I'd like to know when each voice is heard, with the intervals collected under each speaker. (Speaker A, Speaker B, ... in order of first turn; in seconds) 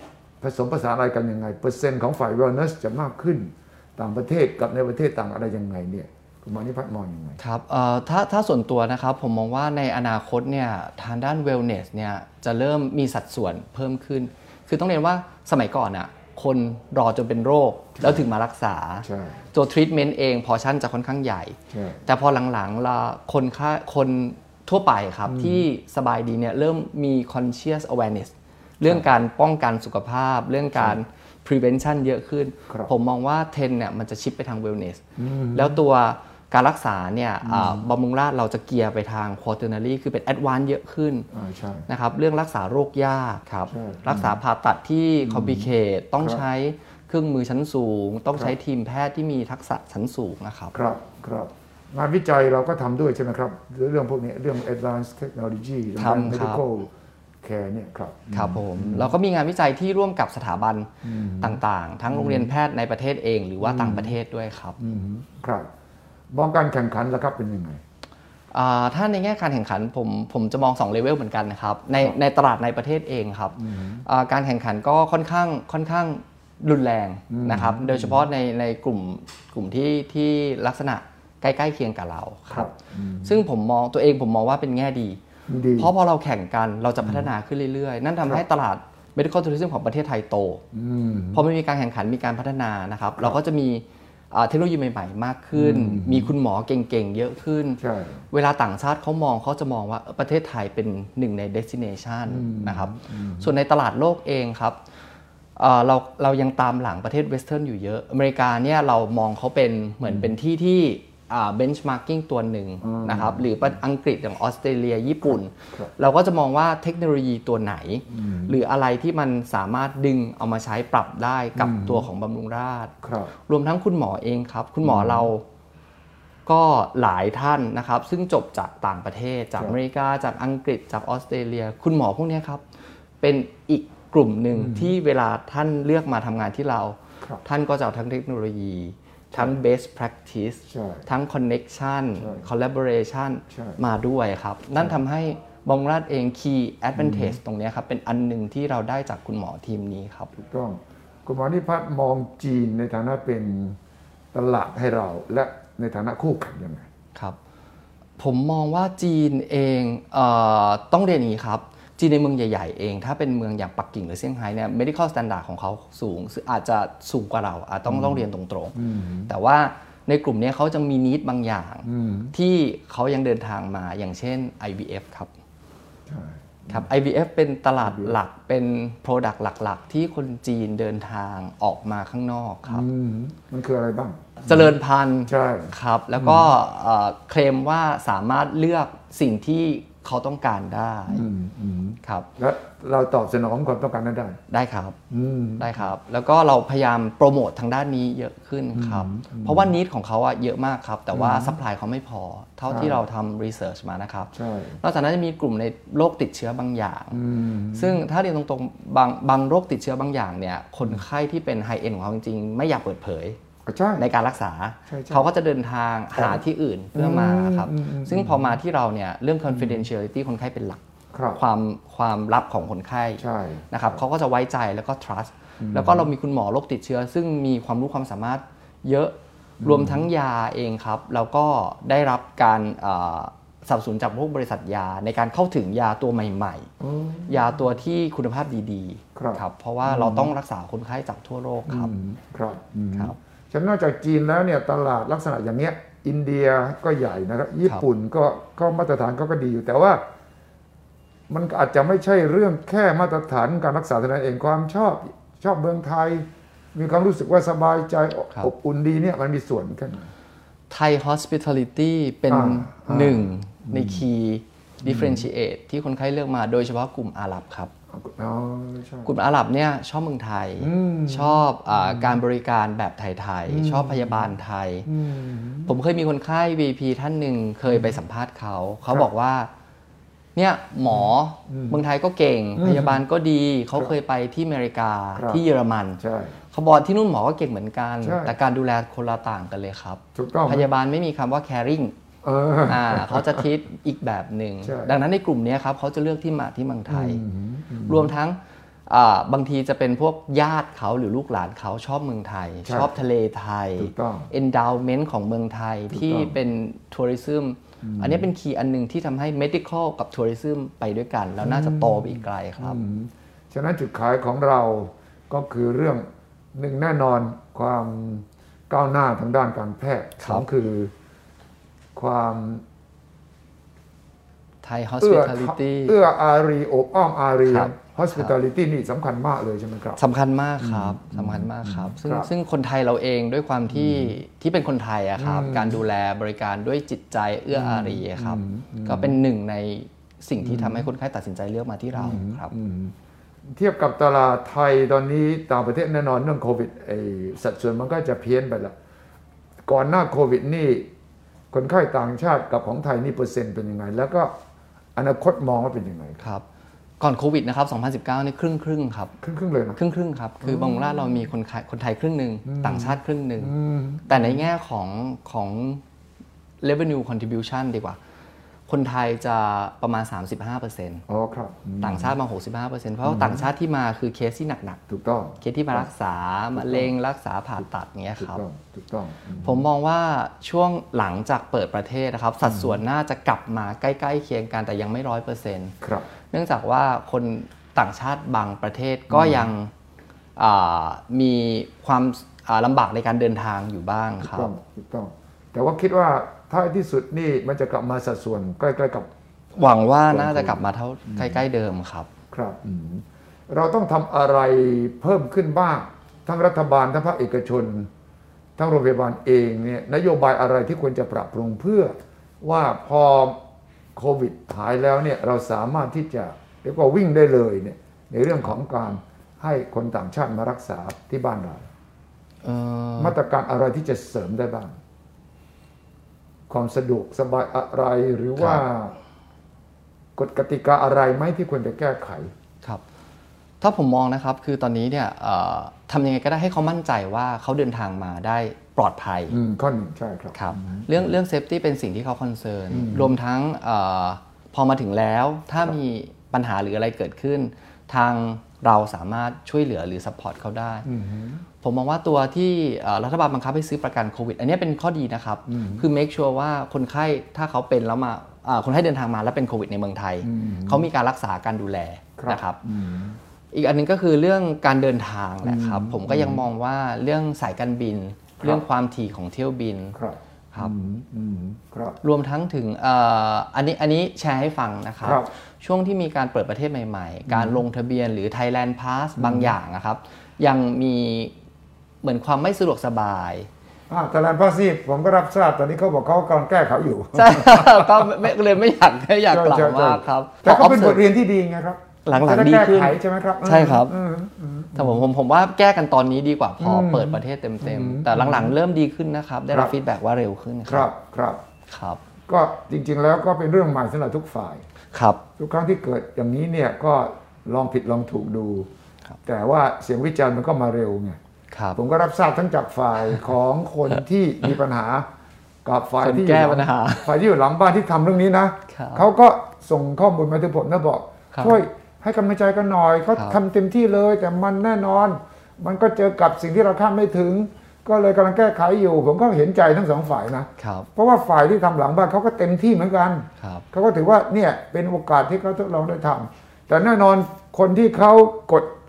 Speaker A: 0.4-7.4, 18.0-18.2, 19.0-19.4, 21.7-22.0, 25.2-25.6, 35.2-35.8, 37.4-37.9, 41.3-41.9, 43.7-44.4, 45.2-46.4, 50.7-56.9, 57.4-59.1, 61.0-62.5, 63.6-64.1, 64.8-65.7, 66.3-67.8, 73.6-74.0, 77.3-78.2, 82.5-83.4, 85.5-85.9, 87.0-87.3, 90.7-91.4, 95.5-96.3, 97.8-98.2, 102.3-103.5, 112.8-113.7, 115.2-115.9, 118.1-118.6, 121.6-122.1, 123.0-123.3, 124.8-125.3, 134.5-134.9, 140.7-141.1, 142.2-142.5, 143.5-143.8, 146.9-147.4, 150.3-153.8, 154.3-156.9, 167.9-169.3, 171.8-172.3, 176.1-176.9, 177.8-178.2, 182.7-184.7, 185.3-186.5, 191.1-194.4, 195.1-195.8, 198.7-199.7, 201.1-201.6, 202.7-203.0, 204.3-204.8, 207.1-208.0, 213.7-214.0, 214.9-215.3, 216.1-216.4, 216.9-218.6, 219.5-219.8, 221.1-221.4, 223.2-224.0, 225.6-226.1, 229.6-230.1, 236.8-237.6, 239.1-240.3, 241.7-250.0, 251.3-260.1, 262.3-264.0, 264.8-265.3, 267.9-269.1, 270.6-272.2, 273.5-275.7, 277.7-277.9, 280.9-281.8, 282.6-283.0, 285.1-285.4, 286.0-286.4, 288.0-288.3, 290.1-290.7, 292.2-293.4, 294.6-295.0, 296.9-298.1, 302.6-303.0, 303.8-304.3, 305.9-306.4, 307.8-308.3, 311.4-320.9, 321.9-322.6, 325.0-330.0, 330.6-332.3, 333.7-334.2, 335.2-335.8, 337.5-339.1, 340.4-340.9, 341.9-342.9, 343.5-348.7, 349.6-350.9, 351.5-354.3, 354.9-356.2, 359.2-359.8, 360.4-361.3, 362.5-364.4, 371.1-372.2, 373.0-373.5, 374.9-375.9, 376.5-376.9, 378.2-379.6, 382.4-382.8, 385.8-386.1, 389.1-389.5, 394.2-399.1, 400.1-401.4, 402.3-407.9, 408.6-413.4, 413.9-421.6, 423.0-424.8, 426.5-428.9, 430.1-432.3, 439.3-441.1, 442.7-443.1, 450.8-451.4, 455.5-455.9, 460.2-460.9, 462.2-463.2, 465.4-466.4, 469.9-472.0, 475.0-475.3, 477.3-477.6, 479.2-479.5, 483.9-488.3, 489.3-495.0, 496.6-498.5, 500.7-501.4, 502.3-504.6, 505.4-508.7, 509.2-511.2, 511.8-515.0, 515.6-538.7
Speaker B: 7.4-41.3, 41.9-50.7, 56.0-56.6, 58.3-64.8, 68.5-82.7, 83.2-85.2, 85.8-90.6, 91.3-104.8, 105.5-122.9, 123.5-125.4, 126.5-132.6, 133.2-150.3, 158.2-168.8, 169.3-175.3, 176.7-182.8, 184.4-191.2, 194.5-195.0, 195.6-207.2, 207.7-213.4, 214.0-220.8, 221.3-236.7, 237.3-241.9, 260.7-267.7, 269.0-274.9, 275.6-279.5, 280.4-286.0, 286.5-291.9, 292.6-297.2, 297.9-312.8, 320.2-320.4, 324.6-325.9, 327.5-328.3, 330.0-342.5, 357.0-359.1, 359.8-363.5, 364.1-365.8, 366.6-368.0, 368.7-371.0, 371.8-374.8, 375.4-378.4, 379.4-385.8, 386.3-389.7, 390.4-394.5, 399.6-402.1, 422.4-423.1, 433.6-439.4, 440.3-450.9, 451.6-462.6, 463.5-470.0, 472.0-481.3, 482.0-483.5, 487.1-491.0, 492.0-493.9, 494.7-500.9, 501.7-502.0, 504.9-505.2, 511.5-511.8, 516.0-517.1, 518.7-519.0, 521.3-521.6, 530.6-530.9